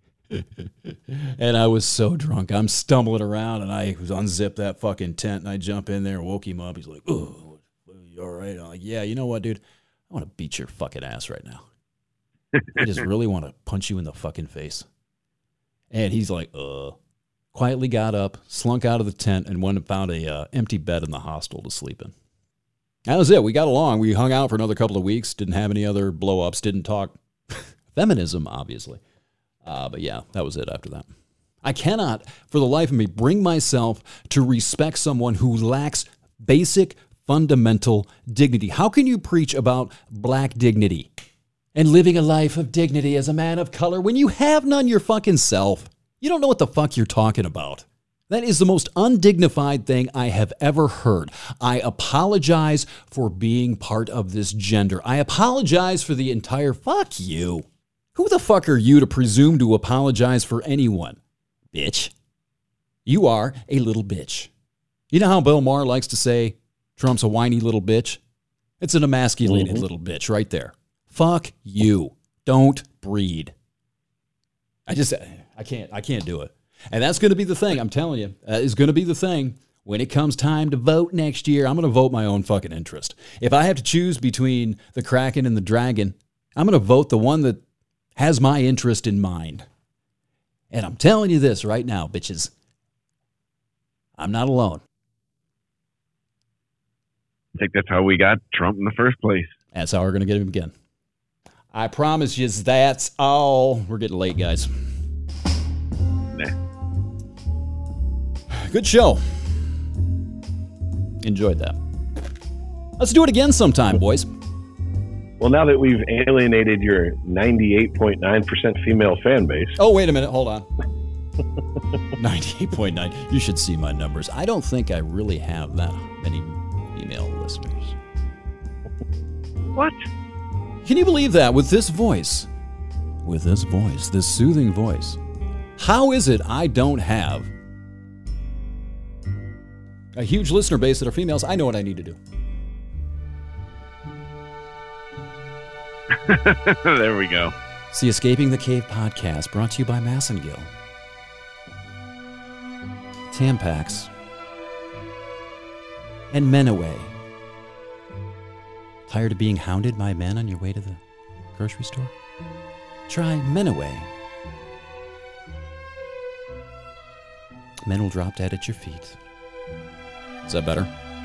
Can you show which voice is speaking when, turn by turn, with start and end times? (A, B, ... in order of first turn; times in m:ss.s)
0:00.3-0:11.6 A
0:12.7-0:14.8 A
0:15.9-0:17.0 A
0:17.5-0:22.1 A
0:23.1-0:29.0 A
0:29.6-0:31.1 A
0:31.6-0:41.1 A
0:41.7-1:01.2 A
1:01.7-1:02.1 A
1:03.0-1:04.5 A
1:05.1-1:08.2 A
1:08.8-1:13.5 A
1:14.9-1:27.6 A
1:28.2-1:29.6 A
1:30.7-1:32.5 A
1:34.2-1:34.8 A
1:37.5-1:39.6 B
1:39.7-1:40.7 A
1:41.7-1:44.9 A
1:48.5-1:49.6 A
1:51.2-1:51.8 A
1:53.0-1:54.3 A
1:55.4-1:59.8 C
1:59.8-2:00.7 A
2:02.2-2:08.0 A
2:09.7-2:10.0 B
2:10.8-2:12.5 A
2:13.2-2:15.2 A
2:15.8-2:17.5 A
2:20.1-2:22.2 A
2:26.1-2:27.5 B
2:27.9-2:30.7 A
2:33.3-2:34.1 A
2:36.3-2:37.2 A
2:39.1-2:41.0 A
2:41.5-2:42.1 A
2:43.1-2:44.1 A
2:47.8-2:49.2 A
2:50.4-2:50.9 A